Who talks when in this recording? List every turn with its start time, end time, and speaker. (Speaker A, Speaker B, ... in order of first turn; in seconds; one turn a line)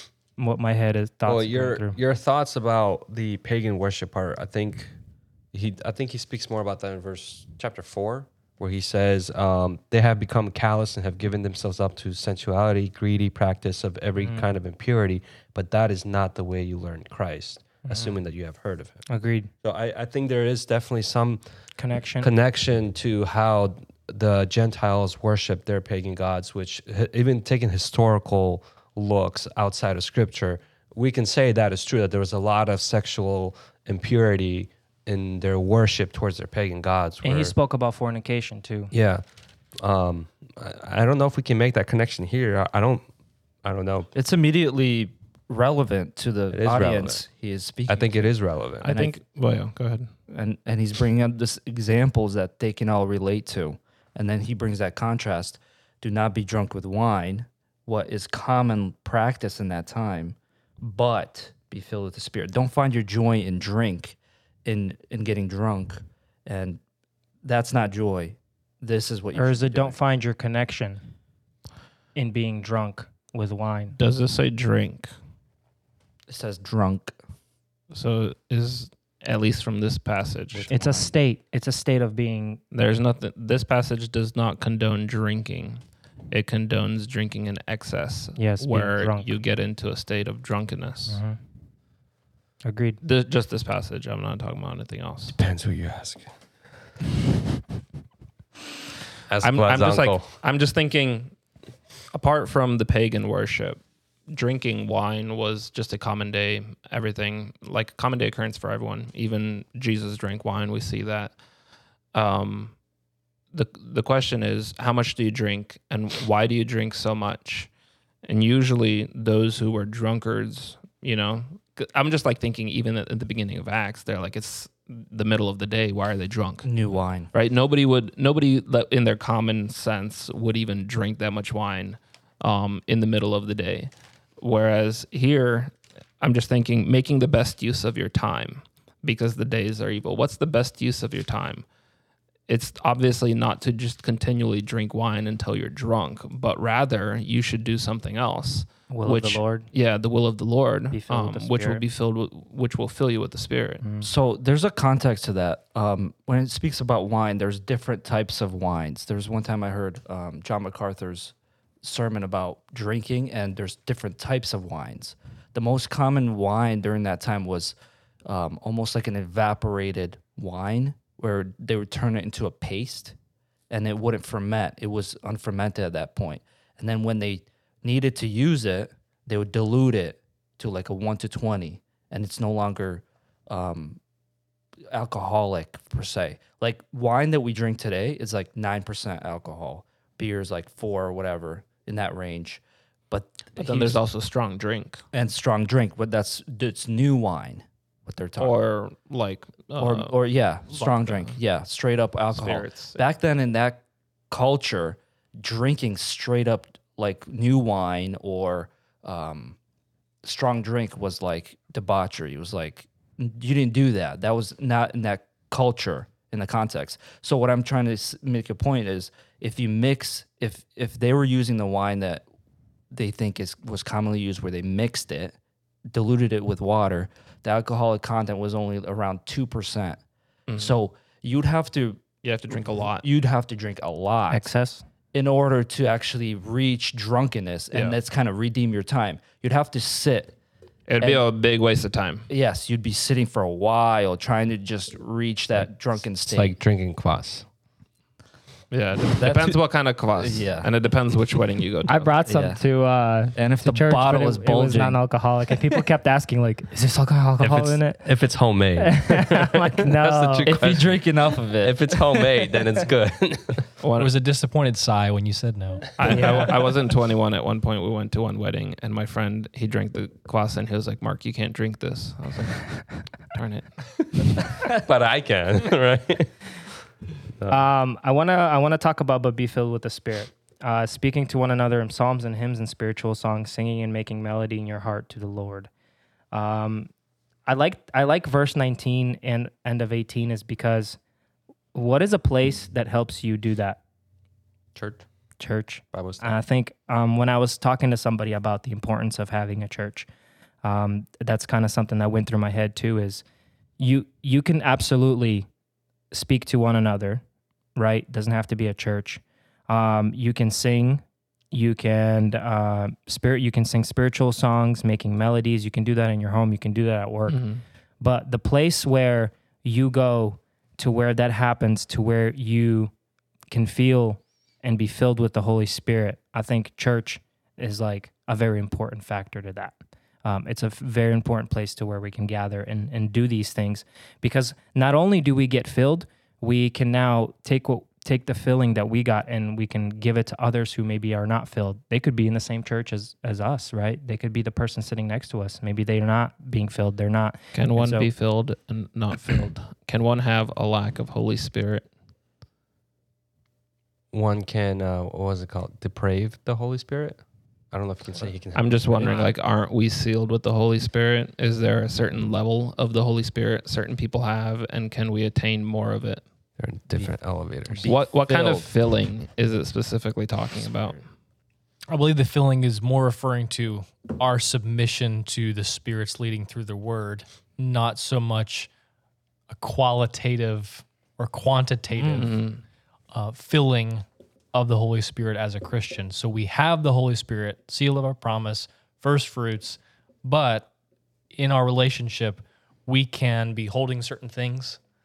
Speaker A: 0.4-2.0
Speaker B: 1.2-5.0
Speaker B: 5.5-19.1
Speaker A: 14.2-14.4
Speaker A: 17.9-18.2
Speaker A: 19.1-19.5
Speaker B: 19.6-21.4
Speaker A: 21.8-22.3
Speaker B: 22.2-37.5
Speaker A: 37.2-38.9
Speaker B: 38.9-39.2
Speaker B: 39.8-43.1
Speaker B: 43.6-44.1
Speaker C: 44.1-48.3
Speaker B: 46.5-47.2
Speaker B: 47.9-48.9
Speaker D: 48.8-50.1
Speaker C: 48.8-49.1
Speaker C: 50.3-66.8
Speaker C: 67.4-70.0
Speaker A: 69.3-71.0
Speaker A: 72.2-74.0
Speaker D: 74.0-75.1
Speaker C: 76.3-77.2
Speaker D: 77.9-80.7
Speaker B: 80.5-81.1
Speaker A: 80.7-82.6
Speaker D: 82.7-91.2
Speaker A: 88.4-89.3
Speaker A: 91.1-91.4
Speaker A: 92.6-93.0
Speaker D: 93.0-95.4
Speaker B: 95.3-96.3
Speaker B: 99.3-100.3
Speaker D: 99.4-101.4
Speaker D: 102.1-111.4
Speaker D: 112.1-112.8
Speaker D: 113.5-117.7
Speaker D: 118.2-141.7
Speaker C: 126.6-127.3
Speaker D: 142.5-153.8
Speaker A: 148.9-149.7
Speaker A: 150.9-151.8
Speaker A: 153.8-154.1
Speaker C: 154.0-173.2
Speaker C: 173.7-184.0
Speaker C: 184.9-194.0
Speaker D: 193.6-195.1
Speaker C: 195.1-198.6
Speaker D: 198.4-201.4
Speaker C: 199.8-209.6
Speaker D: 202.3-203.0
Speaker C: 210.2-222.2
Speaker C: 222.9-225.4
Speaker C: 225.9-230.0
Speaker D: 230.5-230.8
Speaker C: 230.5-234.5
Speaker D: 232.2-233.1
Speaker A: 234.3-234.8
Speaker C: 235.1-240.3
Speaker D: 237.7-238.0
Speaker D: 240.9-242.3
Speaker C: 242.3-246.5
Speaker B: 246.3-247.5
Speaker D: 248.7-252.1
Speaker C: 249.2-249.6
Speaker C: 250.2-250.7
Speaker A: 251.9-258.1
Speaker C: 252.3-252.6
Speaker C: 253.3-255.0
Speaker B: 257.4-261.1
Speaker A: 258.8-260.6
Speaker C: 260.4-261.8
Speaker B: 261.6-263.7
Speaker D: 263.8-264.1
Speaker E: 264.0-266.2
Speaker D: 266.0-274.4
Speaker A: 266.1-266.5
Speaker B: 274.8-276.5
Speaker A: 277.5-285.7
Speaker A: 286.3-286.9
Speaker A: 287.5-291.0
Speaker A: 291.7-293.8
Speaker B: 294.8-295.1
Speaker A: 295.4-300.1
Speaker B: 295.9-296.3
Speaker A: 300.6-303.2
Speaker A: 303.8-305.5
Speaker A: 306.1-307.2
Speaker A: 307.8-317.4
Speaker D: 317.3-317.6
Speaker A: 318.0-322.9
Speaker A: 323.5-348.1
Speaker D: 347.5-351.9
Speaker B: 354.1-359.2
Speaker D: 358.5-366.2
Speaker C: 359.0-359.3
Speaker B: 366.6-367.9
Speaker C: 367.7-368.7
Speaker D: 367.9-371.0
Speaker E: 371.9-378.7
Speaker E: 379.5-382.4
Speaker C: 381.9-382.3
Speaker D: 382.1-382.6
Speaker E: 383.1-390.7
Speaker E: 391.3-394.8